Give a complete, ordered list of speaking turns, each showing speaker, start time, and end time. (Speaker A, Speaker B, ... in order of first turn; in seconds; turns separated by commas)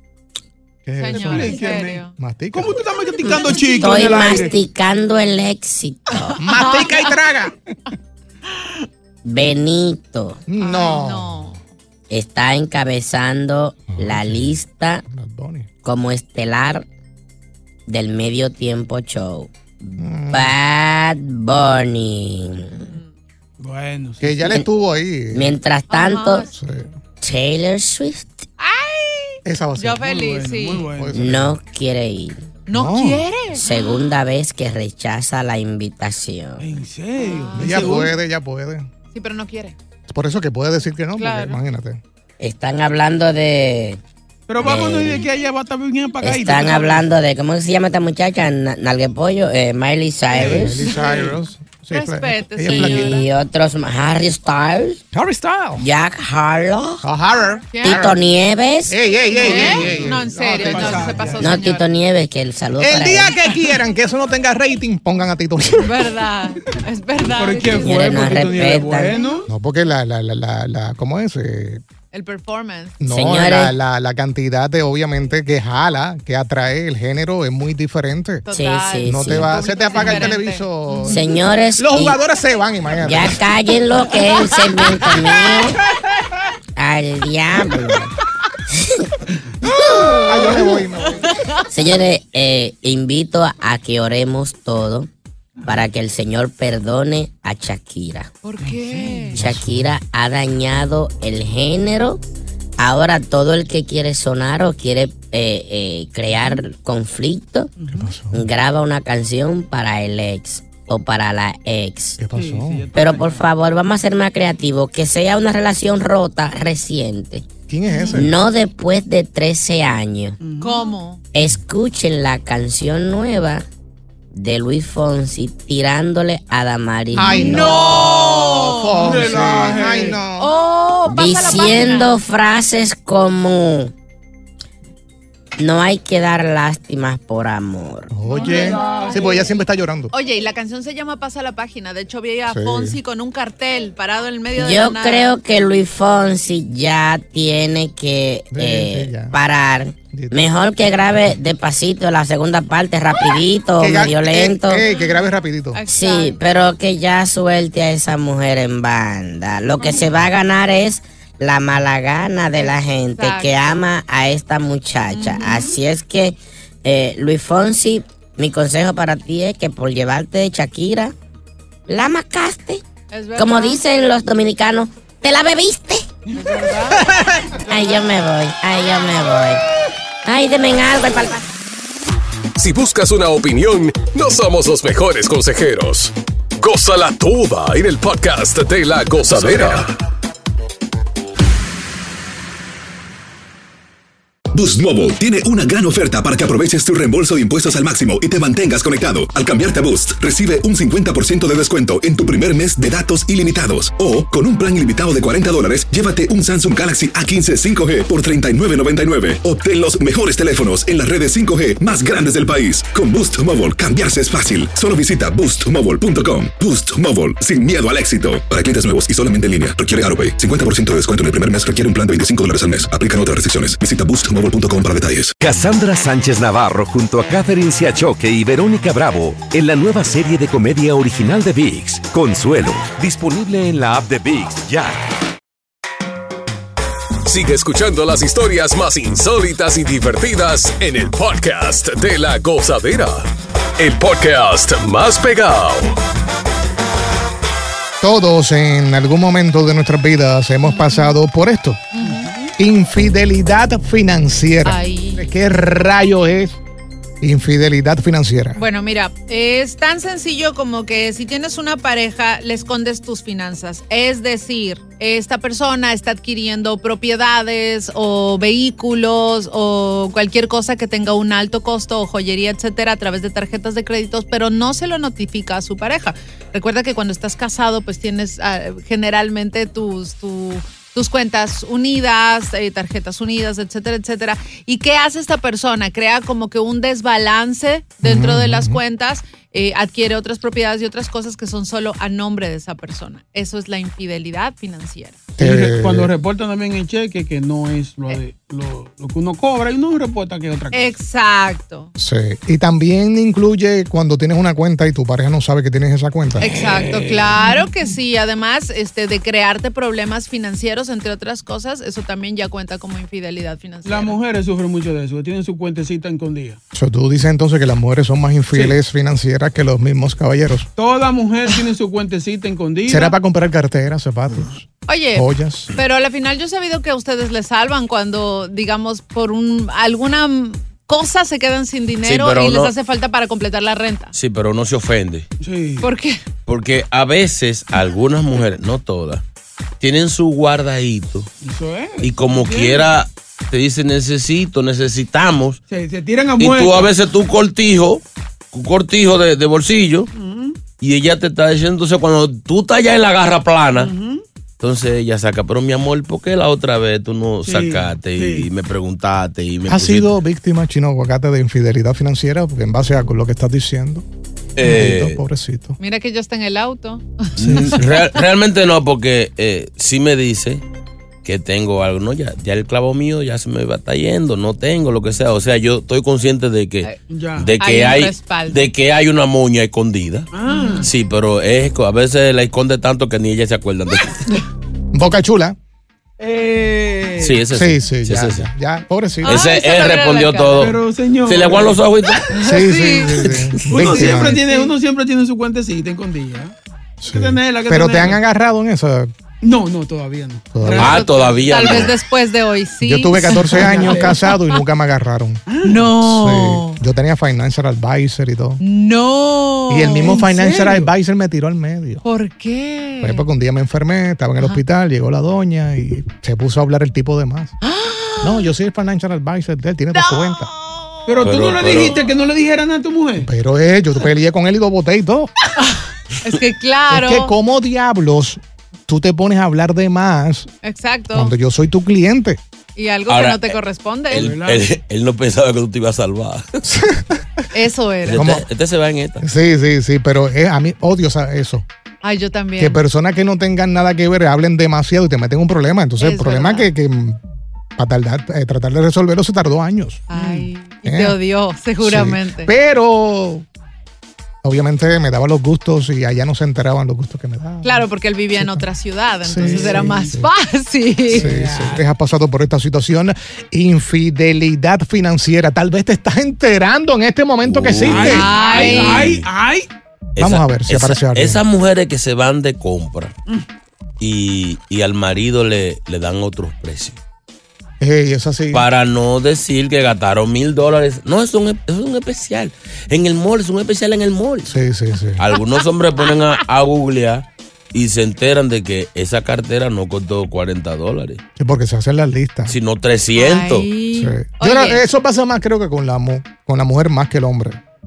Speaker A: 0.9-2.8, Speaker B: 1.0-2.1, Speaker C: 1.1-4.6, Speaker D: 3.3-6.4, Speaker A: 6.4-7.5, Speaker B: 6.5-7.1, Speaker D: 9.2-10.4, Speaker A: 10.5-11.5, Speaker B: 10.6-11.6, Speaker D: 12.1-15.0, Speaker A: 13.9-14.6, Speaker A: 15.1-15.7, Speaker D: 15.8-16.9, Speaker D: 17.9-22.9, Speaker A: 20.0-20.6, Speaker C: 23.6-24.4, Speaker A: 24.2-25.6, Speaker D: 25.3-26.5, Speaker B: 25.9-26.5, Speaker A: 26.5-26.9, Speaker D: 27.2-28.5, Speaker B: 28.6-30.9, Speaker A: 29.4-30.1, Speaker C: 30.0-31.2, Speaker A: 30.9-31.6, Speaker D: 31.1-32.4, Speaker B: 32.7-33.7, Speaker A: 32.7-33.2, Speaker D: 33.5-36.6, Speaker C: 36.6-38.1, Speaker B: 37.2-38.0, Speaker A: 37.5-38.9, Speaker B: 39.1-39.8, Speaker A: 40.1-42.0, Speaker B: 41.2-41.6, Speaker D: 42.4-44.0, Speaker C: 44.5-47.1, Speaker D: 44.6-45.2, Speaker D: 46.2-50.9, Speaker A: 50.3-53.2, Speaker B: 50.8-51.3, Speaker C: 51.0-51.3, Speaker B: 51.9-53.3, Speaker D: 52.7-55.0, Speaker A: 55.1-55.9, Speaker D: 55.8-57.0, Speaker A: 57.0-58.2, Speaker B: 57.7-58.1, Speaker D: 57.8-59.0, Speaker A: 58.9-61.4, Speaker B: 59.4-61.9, Speaker C: 59.4-61.6, Speaker D: 61.4-63.4, Speaker A: 62.8-66.0, Speaker B: 65.8-68.2, Speaker C: 67.3-69.5, Speaker D: 67.8-69.1, Speaker B: 69.1-69.3, Speaker A: 69.5-71.8, Speaker B: 72.1-73.0, Speaker A: 73.0-78.5, Speaker D: 73.1-73.7, Speaker B: 78.5-81.2, Speaker D: 78.5-79.5, Speaker A: 79.0-83.4, Speaker D: 81.1-82.2, Speaker D: 83.0-85.8, Speaker D: 86.8-88.1, Speaker D: 88.7-89.1, Speaker D: 89.8-90.6, Speaker A: 90.2-91.3, Speaker B: 91.2-91.7, Speaker D: 91.7-95.1, Speaker D: 95.7-98.3, Speaker B: 98.4-99.4, Speaker C: 98.6-99.4, Speaker A: 99.3-100.0, Speaker D: 99.4-102.2, Speaker D: 102.8-107.7, Speaker C: 107.8-108.1, Speaker A: 107.9-108.4, Speaker D: 108.3-112.2, Speaker A: 112.2-112.9, Speaker C: 112.3-113.5, Speaker D: 112.9-117.5, Speaker A: 117.7-118.4, Speaker B: 117.9-118.2, Speaker D: 118.1-120.4, Speaker C: 120.4-120.9, Speaker B: 120.6-121.2, Speaker D: 121.3-123.7, Speaker D: 124.3-127.8, Speaker A: 127.2-130.5, Speaker B: 127.2-132.2, Speaker C: 129.0-130.2, Speaker D: 131.1-133.9, Speaker D: 135.6-138.1, Speaker A: 138.1-140.1, Speaker B: 138.3-139.1, Speaker C: 138.3-139.5, Speaker B: 140.1-145.3, Speaker A: 142.5-143.0, Speaker D: 144.6-154.8, Speaker A: 148.5-149.4, Speaker A: 150.1-150.5, Speaker A: 153.8-155.8, Speaker B: 155.7-156.4, Speaker D: 155.9-171.1, Speaker B: 162.6-163.8, Speaker B: 165.1-165.7, Speaker D: 171.9-172.8, Speaker B: 173.1-173.8, Speaker D: 173.4-176.1, Speaker B: 176.3-177.9, Speaker D: 177.7-179.6, Speaker D: 180.2-181.4, Speaker E: 182.6-189.9, Speaker F: 189.3-189.8, Speaker F: 194.5-225.4, Speaker G: 225.4-235.0, Speaker E: 237.3-245.9, Speaker A: 248.0-251.9, Speaker B: 250.6-251.1, Speaker B: 251.9-252.3, Speaker C: 252.0-252.5, Speaker A: 252.6-256.6, Speaker B: 254.7-255.2, Speaker A: 257.2-258.6, Speaker B: 258.6-295.2, Speaker A: 288.0-288.8, Speaker A: 295.4-296.1, Speaker C: 295.4-300.9, Speaker B: 300.7-301.9, Speaker A: 302.0-306.5, Speaker B: 306.4-314.2, Speaker C: 306.4-307.6, Speaker C: 313.9-316.6, Speaker A: 316.7-320.7, Speaker C: 318.5-318.8, Speaker C: 320.8-323.1, Speaker A: 322.9-325.7, Speaker B: 324.9-334.1, Speaker H: 332.0-332.7, Speaker H: 334.1-335.3, Speaker C: 335.4-335.9, Speaker B: 335.8-336.2, Speaker H: 336.5-339.2, Speaker H: 339.8-341.3, Speaker C: 341.4-342.9, Speaker H: 342.0-345.6, Speaker C: 345.7-346.9, Speaker H: 346.4-350.1, Speaker C: 350.1-350.6, Speaker H: 350.7-353.9, Speaker C: 353.8-354.2, Speaker H: 354.6-360.2, Speaker C: 357.4-358.5, Speaker A: 359.7-364.1, Speaker H: 364.6-365.2, Speaker A: 364.6-365.8, Speaker B: 365.8-368.2, Speaker A: 367.4-367.9, Speaker H: 367.4-370.6, Speaker H: 371.2-380.3, Speaker C: 377.1-377.6, Speaker B: 377.6-378.7, Speaker C: 380.3-380.9, Speaker B: 380.5-380.9, Speaker H: 380.8-384.3, Speaker A: 384.9-385.6, Speaker C: 386.2-387.4, Speaker H: 387.2-388.5, Speaker A: 387.5-389.4, Speaker B: 389.2-390.8, Speaker H: 389.2-392.3, Speaker C: 390.6-392.2, Speaker B: 392.3-394.7, Speaker A: 392.4-394.4, Speaker C: 393.6-396.5, Speaker A: 397.0-399.1, Speaker C: 397.1-398.2, Speaker C: 399.4-401.6, Speaker A: 400.5-401.1, Speaker B: 400.6-404.6, Speaker H: 400.8-402.0, Speaker A: 402.8-408.6, Speaker C: 403.4-404.4, Speaker C: 405.5-405.9, Speaker B: 405.6-406.8, Speaker B: 408.6-410.3, Speaker A: 409.7-412.0, Speaker C: 410.0-410.9, Speaker B: 412.0-413.2, Speaker A: 413.0-417.6, Speaker B: 417.6-418.5, Speaker A: 418.2-420.5, Speaker B: 419.9-421.1, Speaker C: 421.1-423.3, Speaker H: 421.2-422.0, Speaker A: 423.2-425.3, Speaker B: 425.6-427.3, Speaker A: 426.9-430.5, Speaker B: 430.6-431.3, Speaker A: 431.1-432.4, Speaker B: 432.8-434.4, Speaker H: 433.1-433.6, Speaker H: 434.1-436.6, Speaker C: 434.2-434.7, Speaker A: 436.6-437.4, Speaker B: 437.5-438.4, Speaker H: 438.0-439.3, Speaker A: 438.1-438.4, Speaker A: 439.2-441.6, Speaker B: 442.0-442.8, Speaker A: 442.6-447.2, Speaker B: 446.0-446.7, Speaker A: 447.8-451.2, Speaker B: 450.1-452.5, Speaker A: 451.8-453.4, Speaker A: 454.4-458.6, Speaker B: 457.6-461.3, Speaker A: 459.2-460.3, Speaker C: 459.4-460.2, Speaker C: 461.1-461.8, Speaker A: 461.1-468.3, Speaker H: 467.4-469.3, Speaker C: 467.8-469.7, Speaker B: 467.9-469.2, Speaker H: 470.2-473.1, Speaker A: 470.2-471.4, Speaker H: 474.0-477.0, Speaker A: 477.8-478.7, Speaker H: 478.5-484.5, Speaker A: 484.5-485.2, Speaker H: 485.2-491.2, Speaker A: 491.4-492.6, Speaker H: 492.5-493.7, Speaker B: 493.1-494.9, Speaker A: 493.9-497.6